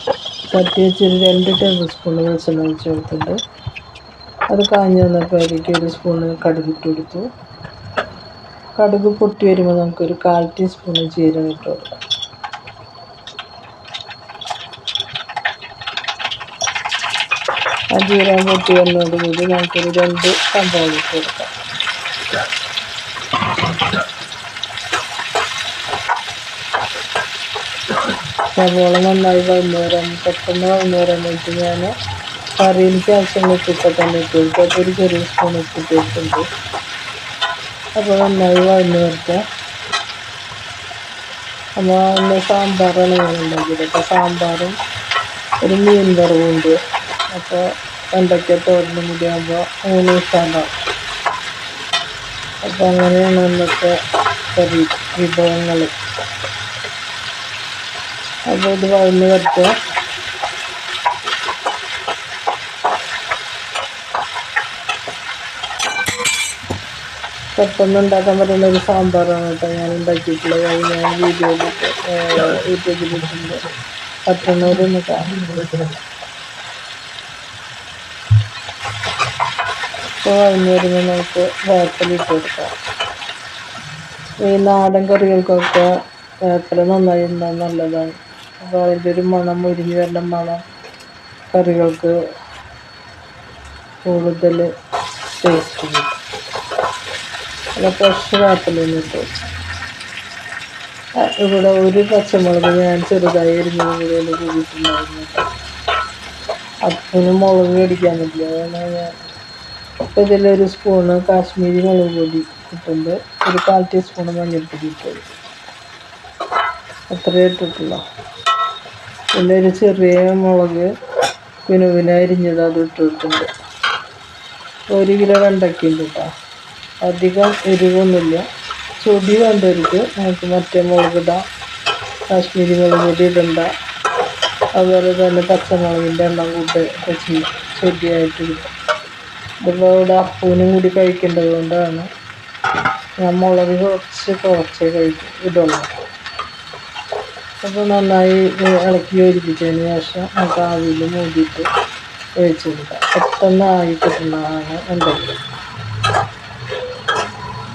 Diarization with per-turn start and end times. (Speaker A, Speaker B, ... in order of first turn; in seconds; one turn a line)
Speaker A: 0.5-3.4
Speaker A: 4.5-7.3
Speaker A: 8.8-11.9
Speaker A: 17.9-21.5
Speaker A: 28.5-31.9
Speaker A: 32.6-36.5
Speaker A: 38.0-39.4
Speaker A: 41.8-44.8
Speaker A: 45.6-46.8
Speaker A: 47.3-50.7
Speaker A: 52.6-53.9
Speaker A: 54.5-55.9
Speaker A: 58.5-59.7
Speaker A: 67.5-73.6
Speaker A: 74.3-75.8
Speaker A: 80.2-82.7
Speaker A: 84.4-85.9
Speaker A: 86.4-90.6
Speaker A: 91.5-92.1
Speaker A: 94.0-94.7
Speaker A: 95.4-96.2
Speaker A: 97.8-99.3
Speaker A: 101.2-105.5
Speaker A: 106.8-109.1
Speaker A: 110.1-115.2
Speaker A: 117.1-118.0
Speaker A: 119.3-120.9
Speaker A: 121.6-123.5
Speaker A: 124.9-126.3
Speaker A: 127.0-128.4
Speaker A: 129.0-131.4
Speaker A: 132.3-133.7
Speaker A: 134.8-138.7
Speaker A: 139.6-142.1
Speaker A: 143.2-145.9
Speaker A: 147.6-151.7
Speaker A: 152.4-155.3